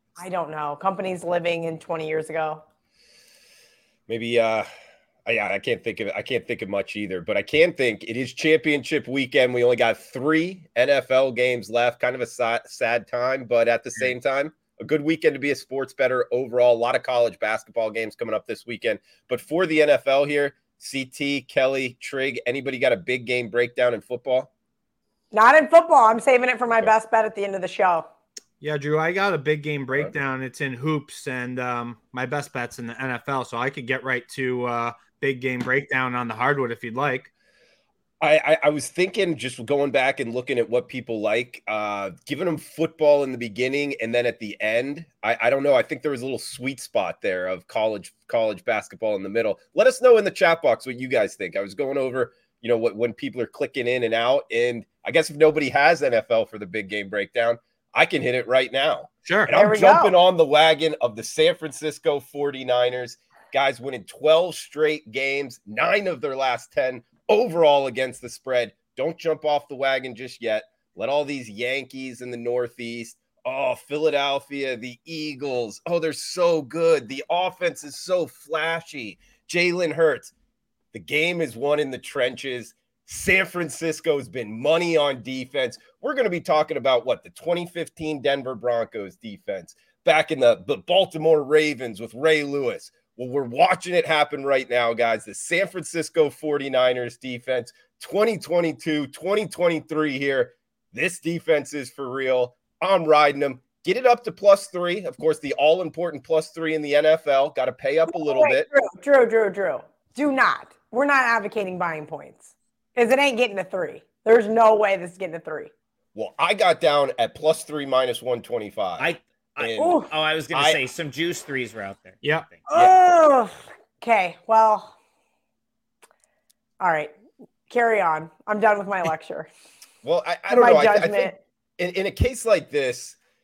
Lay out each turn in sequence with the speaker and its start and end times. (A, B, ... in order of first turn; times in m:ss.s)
0:00.2-0:02.6 A
0:04.1-0:04.7 B
0:05.2-0:24.5 B
0:25.3-0:28.1 A
0:28.6-0:37.3 C
0:38.2-1:20.3 B
0:59.2-0:59.5 C
0:59.5-1:00.1 A
1:20.9-1:48.7 B
1:48.1-1:55.7 A
1:56.1-2:00.0 B
1:59.0-2:02.5 D
1:59.8-2:00.1 A
2:00.5-2:00.8 B
2:02.2-2:02.5 C
2:02.7-2:04.9 A
2:06.8-2:07.1 A
2:07.7-2:09.5 A
2:10.0-2:13.2 B
2:10.5-2:11.4 A